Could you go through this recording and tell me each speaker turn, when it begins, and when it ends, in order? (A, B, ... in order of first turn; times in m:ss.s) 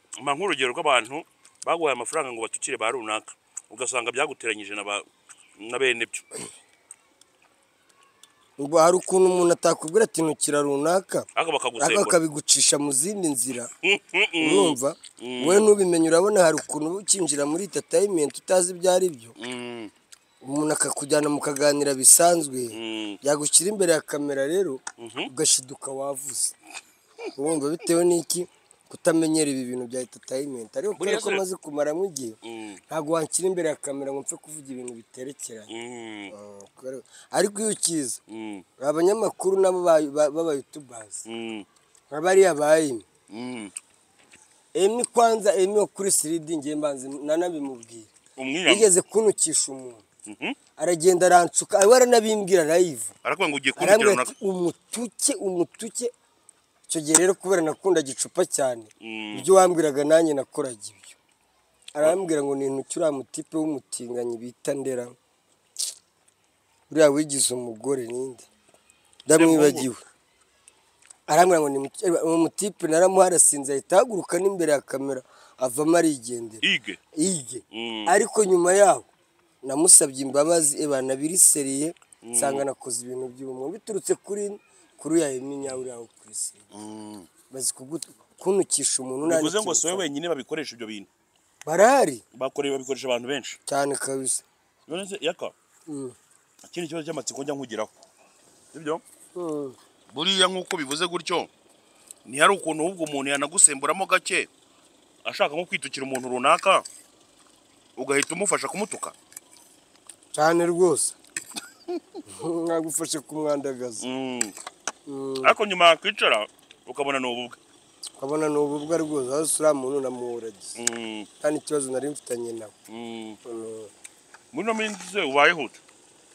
0:00.2-0:05.1 A
0:05.6-0:06.3 A
0:08.6-0:11.3 B
0:11.4-0:12.2 A
0:11.8-0:13.7 B
0:13.7-0:15.7 A
0:14.4-0:19.4 B
0:19.4-0:19.9 A
0:20.4-0:26.6 B
0:22.7-0:23.2 A
0:25.0-0:25.3 A
0:27.4-0:32.4 B
0:31.0-0:31.4 A
0:32.4-0:32.8 A
0:32.9-0:35.7 B
0:35.7-0:36.3 A
0:36.3-0:38.2 B
0:38.3-0:38.6 A
0:38.8-0:41.2 B
0:41.3-0:41.7 A
0:42.1-0:43.1 B
0:43.3-0:43.7 A
0:44.7-0:48.1 B
0:48.4-0:48.9 A
0:48.6-0:50.0 B
0:50.3-0:50.6 A
0:50.8-0:53.1 B
0:53.2-0:54.4 A
0:53.8-0:56.1 B
0:56.9-1:01.2 B
0:59.0-0:59.5 A
1:01.9-1:05.2 B
1:06.9-1:08.5 B
1:09.2-1:10.0 B
1:09.3-1:09.9 A
1:11.3-1:16.6 B
1:16.6-1:17.0 A
1:17.1-1:19.1 B
1:17.7-1:18.2 A
1:19.6-1:26.6 B
1:22.2-1:22.7 A
1:26.7-1:27.3 A
1:27.5-1:30.1 B
1:29.2-1:31.1 A
1:31.6-1:32.2 B
1:32.3-1:33.6 A
1:33.7-1:34.4 B
1:34.9-1:35.5 A
1:35.9-1:36.2 B
1:36.7-1:37.9 A
1:38.7-1:39.0 A
1:39.4-1:39.8 B
1:40.1-1:41.5 A
1:42.2-1:44.5 A
1:45.2-1:46.8 A
1:48.0-1:49.1 A
1:50.3-1:51.2 B
1:52.3-1:54.0 B
1:54.0-1:54.6 A
1:55.1-1:55.6 B
1:55.4-1:57.6 A
1:58.2-2:00.8 B
2:00.8-2:01.3 A
2:01.4-2:02.7 B
2:02.9-2:03.4 A
2:03.4-2:03.9 B
2:04.5-2:05.8 A